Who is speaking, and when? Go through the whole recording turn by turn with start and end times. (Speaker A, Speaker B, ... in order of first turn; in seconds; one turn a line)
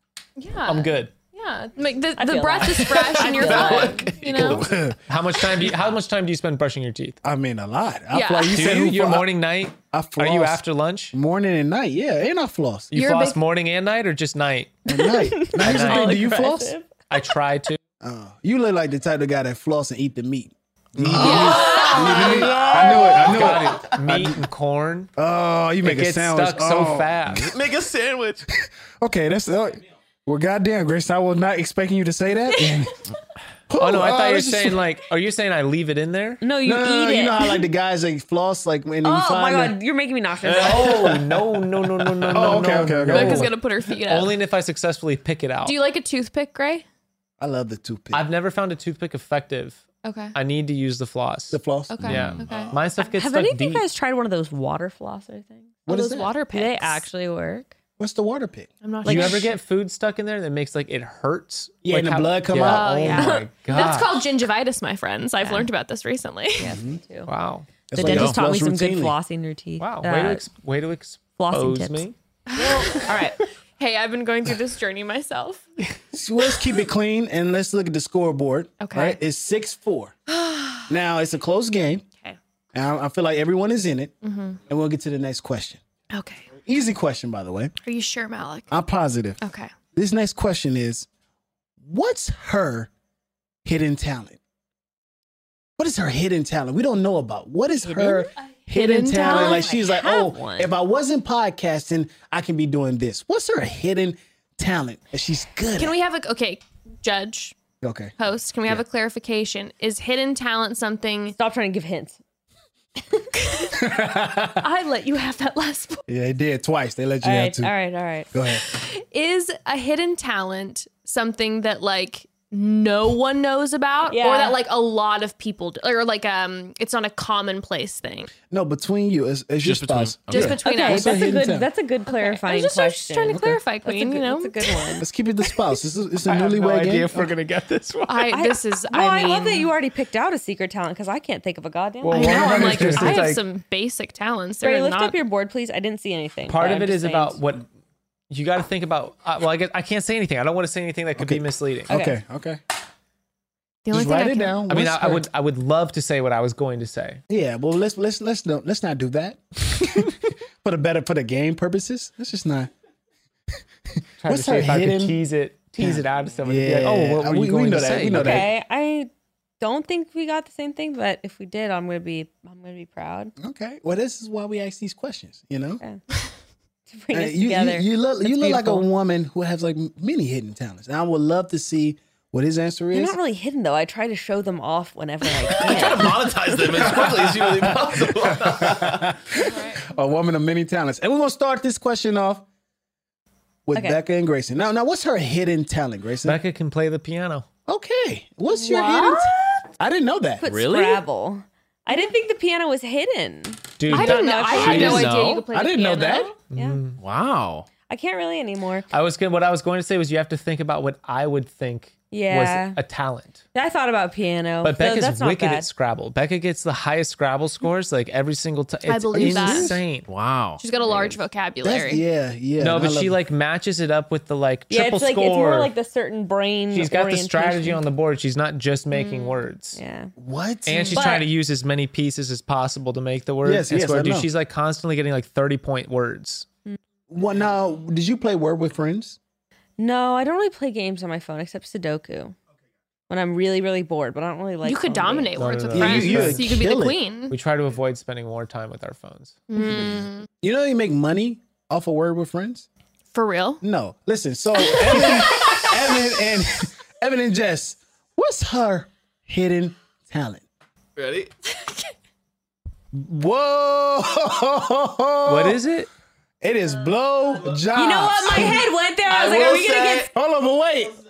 Speaker A: 0.4-4.6
Speaker B: 0.7-1.1
Speaker C: 2.2-4.1
Speaker D: 2.9-4.7
Speaker E: 4.3-5.0
Speaker B: 5.1-7.2
Speaker E: 7.2-9.3
Speaker A: 8.1-8.6
Speaker D: 8.6-8.8
Speaker B: 8.6-11.1
Speaker E: 9.9-12.9
Speaker B: 12.9-14.8
Speaker A: 12.9-13.4
Speaker E: 14.9-16.7
Speaker C: 15.0-16.9
Speaker B: 15.4-16.3
Speaker B: 17.1-17.8
Speaker E: 18.0-24.4
Speaker D: 21.0-21.6
Speaker A: 21.1-22.7
Speaker C: 21.3-23.3
Speaker B: 22.8-25.1
Speaker E: 25.1-27.3
Speaker B: 25.8-27.5
Speaker D: 27.3-28.5
Speaker E: 29.0-32.9
Speaker A: 32.5-32.8
Speaker E: 33.7-34.8
Speaker B: 33.8-36.4
Speaker C: 36.4-37.6
Speaker E: 36.6-39.8
Speaker C: 39.0-41.1
Speaker D: 40.4-41.4
Speaker B: 40.6-43.5
Speaker D: 42.0-42.3
Speaker E: 42.3-43.5
Speaker A: 43.1-44.4
Speaker B: 44.0-45.8
Speaker A: 45.6-46.9
Speaker E: 47.4-48.2
Speaker B: 48.1-53.8
Speaker A: 50.0-50.4
Speaker E: 51.5-52.7
Speaker A: 51.9-53.1
Speaker D: 52.0-52.7
Speaker C: 53.2-55.8
Speaker E: 55.9-56.3
Speaker A: 55.9-57.1
Speaker C: 56.5-57.7
Speaker E: 58.0-58.7
Speaker A: 58.8-59.5
Speaker C: 59.0-59.5
Speaker B: 59.0-64.3
Speaker E: 61.8-63.1
Speaker A: 62.6-66.8
Speaker C: 63.1-63.5
Speaker C: 65.4-65.7
Speaker C: 66.6-67.3
Speaker E: 66.6-67.0
Speaker B: 67.3-67.7
Speaker E: 67.9-69.2
Speaker C: 67.9-70.4
Speaker D: 68.0-68.3
Speaker B: 69.8-72.1
Speaker C: 71.4-72.1
Speaker A: 72.5-75.7
Speaker E: 76.1-80.2
Speaker A: 78.8-79.2
Speaker A: 80.3-80.9
Speaker E: 80.9-82.0
Speaker E: 82.7-85.8
Speaker A: 84.2-84.6
Speaker A: 86.1-86.6
Speaker E: 86.6-87.7
Speaker A: 87.8-88.7
Speaker E: 88.7-89.4
Speaker A: 89.4-89.7
Speaker E: 89.9-91.1
Speaker E: 91.8-92.9
Speaker E: 93.6-94.4
Speaker E: 95.8-106.0
Speaker A: 97.8-99.7
Speaker C: 99.2-100.7
Speaker A: 105.8-107.6
Speaker E: 107.8-108.2
Speaker A: 108.2-111.3
Speaker C: 111.3-112.2
Speaker A: 113.3-114.0
Speaker E: 113.8-114.6
Speaker A: 114.6-116.0
Speaker E: 116.1-117.7
Speaker C: 117.2-118.3
Speaker E: 118.3-118.6
Speaker A: 118.5-128.3
Speaker C: 124.1-124.6
Speaker E: 128.5-131.7
Speaker D: 129.6-130.6
Speaker A: 130.3-131.3
Speaker C: 130.6-135.1
Speaker A: 132.1-135.0
Speaker E: 133.3-133.6
Speaker E: 135.0-137.3
Speaker B: 136.2-138.4
Speaker A: 138.1-139.7
Speaker C: 138.3-143.0
Speaker B: 142.0-143.4
Speaker A: 142.1-145.2
Speaker E: 142.2-143.2
Speaker C: 144.6-147.4
Speaker B: 146.5-147.7
Speaker B: 148.3-151.9
Speaker E: 151.2-152.6
Speaker A: 153.8-154.7
Speaker E: 153.9-155.3
Speaker B: 154.7-157.2
Speaker E: 157.3-162.7
Speaker B: 164.2-168.5
Speaker E: 164.3-165.2
Speaker E: 165.8-168.5
Speaker C: 168.1-173.3
Speaker E: 173.4-175.8
Speaker C: 176.9-178.8
Speaker E: 177.1-183.2
Speaker C: 182.9-186.2
Speaker D: 185.4-189.1
Speaker E: 186.7-192.4
Speaker A: 189.4-189.8
Speaker E: 193.7-196.4
Speaker C: 193.7-194.0
Speaker B: 196.2-197.4
Speaker E: 197.7-200.4
Speaker C: 198.6-199.2
Speaker A: 198.7-199.2
Speaker C: 200.4-205.1
Speaker D: 200.4-201.0
Speaker B: 203.8-205.1
Speaker A: 203.9-206.4
Speaker D: 204.5-205.4
Speaker E: 205.5-206.3
Speaker B: 206.5-207.0
Speaker C: 206.5-206.8
Speaker D: 207.0-207.7
Speaker C: 207.9-208.9
Speaker B: 208.9-213.4
Speaker C: 212.1-212.8
Speaker C: 213.5-215.7
Speaker B: 214.6-220.1
Speaker A: 218.8-219.8
Speaker E: 219.1-219.8
Speaker D: 220.1-220.6
Speaker A: 220.6-222.0
Speaker E: 221.6-223.2
Speaker B: 222.6-225.7
Speaker C: 224.7-227.8
Speaker B: 226.7-229.8
Speaker A: 228.9-229.4
Speaker C: 229.7-230.1
Speaker E: 230.2-231.0
Speaker B: 230.7-236.4
Speaker A: 230.7-231.1
Speaker C: 230.9-231.2
Speaker E: 233.4-234.3
Speaker E: 237.1-239.2
Speaker C: 239.8-242.3
Speaker C: 243.1-245.3
Speaker A: 244.6-247.4
Speaker B: 245.3-246.5
Speaker E: 245.7-247.0
Speaker B: 247.3-249.4
Speaker A: 249.5-250.3
Speaker E: 249.6-252.7
Speaker A: 253.1-253.6
Speaker E: 253.6-260.4
Speaker A: 254.6-255.8
Speaker D: 261.0-261.3
Speaker E: 262.9-265.6
Speaker B: 265.3-265.9
Speaker E: 266.4-268.6
Speaker C: 267.7-270.1
Speaker D: 269.1-270.1
Speaker E: 270.1-270.9